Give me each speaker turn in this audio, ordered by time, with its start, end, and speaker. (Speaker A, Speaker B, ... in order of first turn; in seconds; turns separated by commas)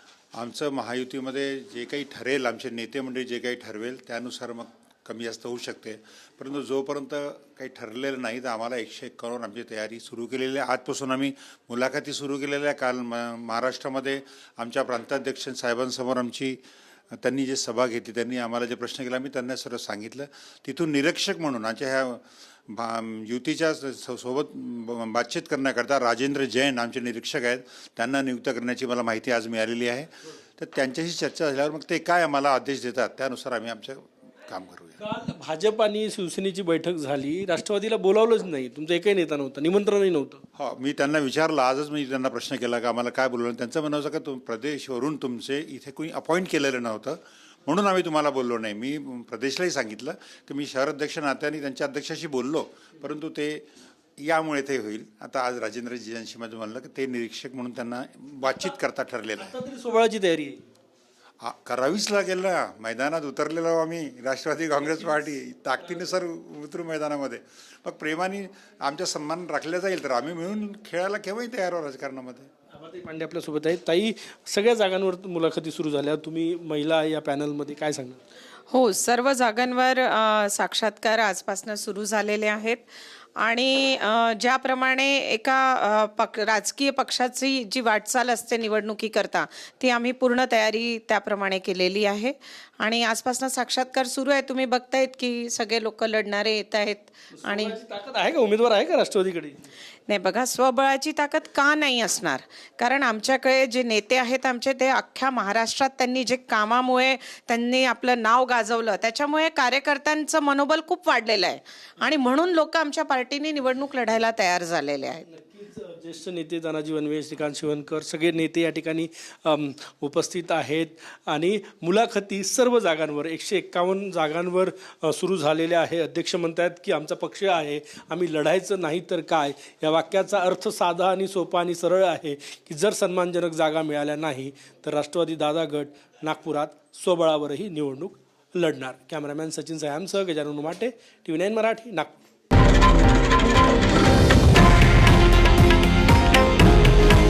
Speaker A: 0.3-16.6, Speaker A: 17.1-35.0, Speaker B: 35.0-40.4, Speaker A: 40.5-53.6, Speaker A: 54.2-59.5, Speaker B: 59.4-60.6, Speaker A: 61.4-72.5, Speaker B: 72.7-78.2, Speaker C: 78.7-97.7, Speaker B: 97.3-99.7, Speaker C: 100.1-115.2, Speaker B: 115.3-142.1